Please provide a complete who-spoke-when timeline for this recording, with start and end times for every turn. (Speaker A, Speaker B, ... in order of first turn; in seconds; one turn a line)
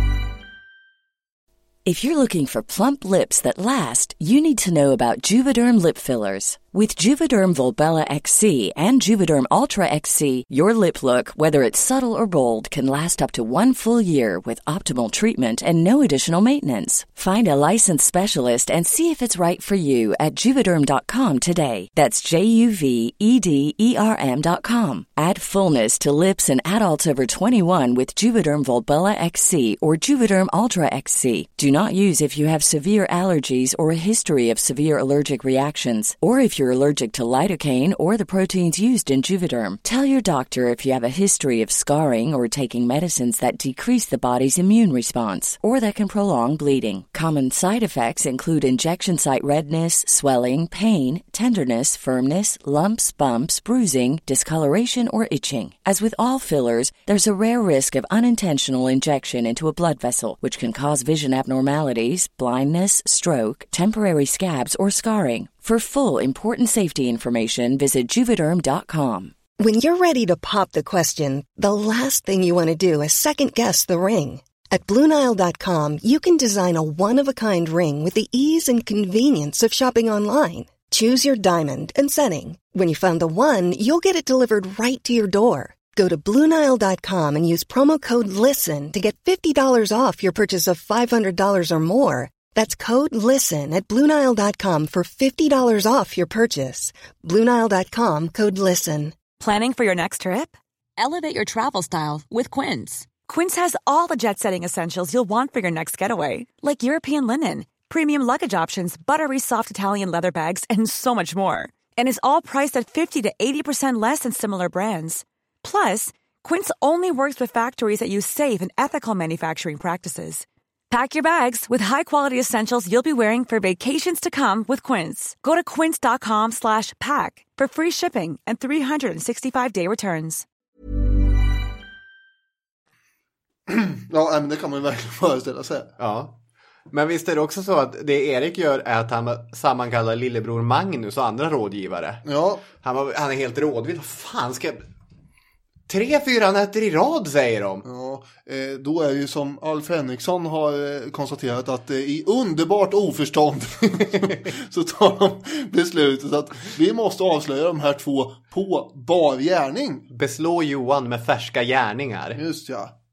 Speaker A: 1.8-69.4
Speaker B: 69.6-99.2
Speaker C: 99.4-130.4
Speaker D: 133.7-135.9
Speaker E: 136.0-136.4
Speaker E: 136.9-142.2
Speaker D: 142.2-142.6
Speaker E: 142.8-144.8
Speaker E: 145.9-147.8
Speaker D: 147.8-160.1
Speaker E: 160.1-162.4
Speaker D: 162.3-162.9